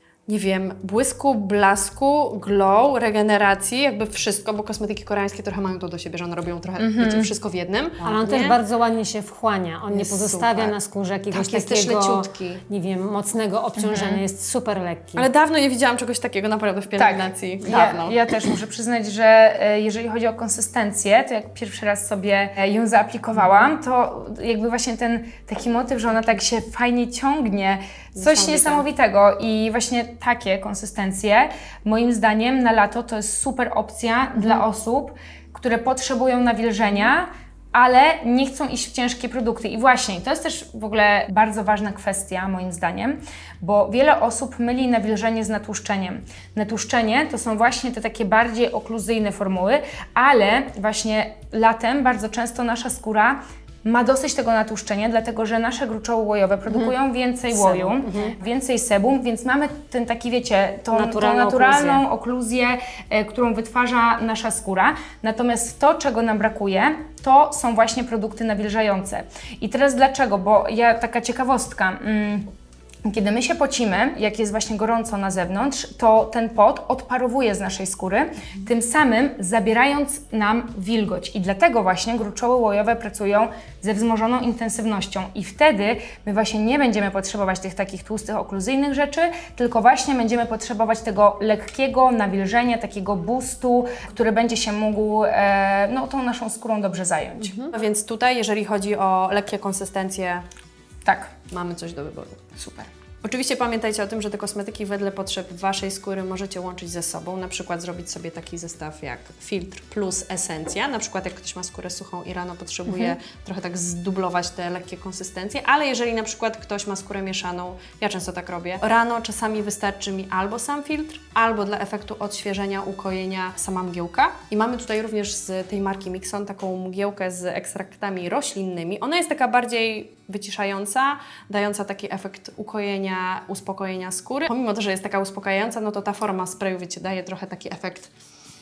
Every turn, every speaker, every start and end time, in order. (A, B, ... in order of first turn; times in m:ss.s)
0:00.3-0:08.6 A
0:06.8-0:07.3 B
0:08.0-0:15.2 C
0:09.9-0:10.7 A
0:11.3-0:12.6 A
0:13.8-0:14.2 B
0:15.2-0:18.2 A
0:17.0-1:12.5 B
0:28.1-0:28.8 A
0:56.7-0:56.9 C
0:57.5-0:58.3 C
1:00.9-1:02.0 C
1:13.0-1:37.6 B
1:37.7-1:40.4 A
1:41.0-1:41.3 B
1:41.5-1:42.6 A
1:42.6-1:42.9 B
1:43.2-2:18.1 A